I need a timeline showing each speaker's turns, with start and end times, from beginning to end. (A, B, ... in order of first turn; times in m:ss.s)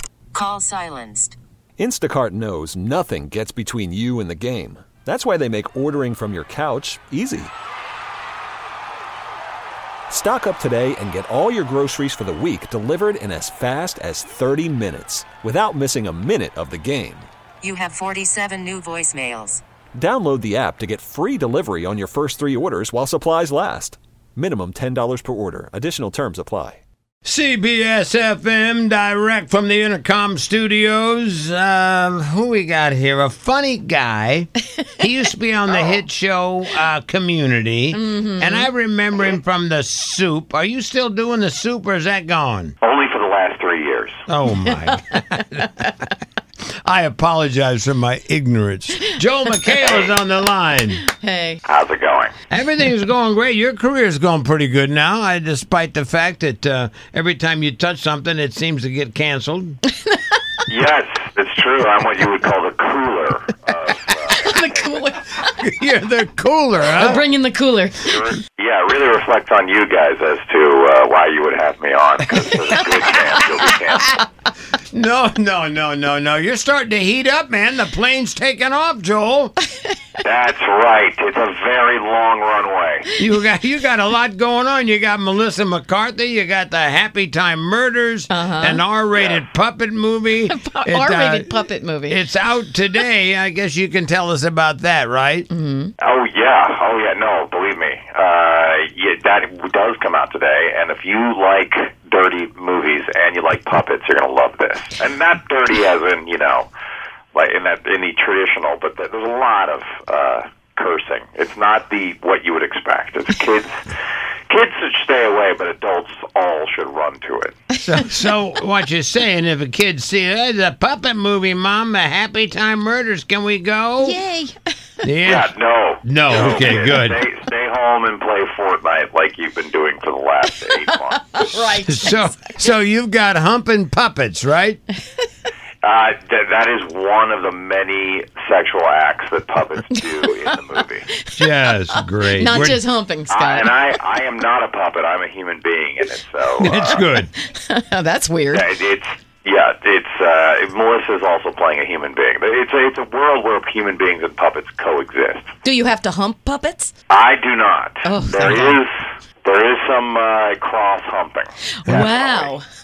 0:00.3-0:01.4 A
0:01.8-0:07.5 B
0:10.1-0:17.3 B
0:17.6-0:19.6 A
0:20.0-0:26.8 B
0:27.2-0:42.7 C
0:35.7-0:36.0 D
0:38.0-0:38.6 E
0:42.8-0:44.2 D
0:44.3-0:45.9 C
0:46.8-0:51.0 C
0:49.8-0:50.1 D
0:51.1-0:51.6 E
0:51.6-0:52.3 D
0:52.5-0:59.8 C
1:00.7-1:05.0 D
1:04.6-1:05.2 E
1:05.4-1:07.2 C
1:07.0-1:07.3 D
1:07.1-1:08.2 E
1:08.0-1:14.2 D
1:12.4-1:12.8 C
1:14.9-1:19.5 C
1:20.2-1:23.1 D
1:23.2-1:31.5 C
1:28.3-1:28.8 E
1:29.1-1:29.4 D
1:30.5-1:32.2 E
1:32.1-1:35.5 C
1:35.5-1:35.9 E
1:36.0-1:46.7 D
1:47.3-1:53.8 D
1:54.5-1:57.6 D
1:57.8-2:04.2 C
2:04.1-2:04.5 E
2:05.0-2:05.5 C
2:05.2-2:11.4 D
2:06.0-2:07.2 C
2:11.1-2:12.3 E
2:11.8-2:14.8 C
2:15.8-2:21.0 D
2:21.3-2:22.8 C
2:22.5-2:23.8 E
2:23.3-2:27.1 D
2:26.6-2:27.3 C
2:27.4-2:28.7 E
2:28.5-2:35.5 D
2:35.6-2:36.9 E
2:37.1-2:38.9 D
2:38.0-2:38.8 E
2:39.4-2:42.5 D
2:41.8-2:42.1 C
2:41.8-2:42.6 E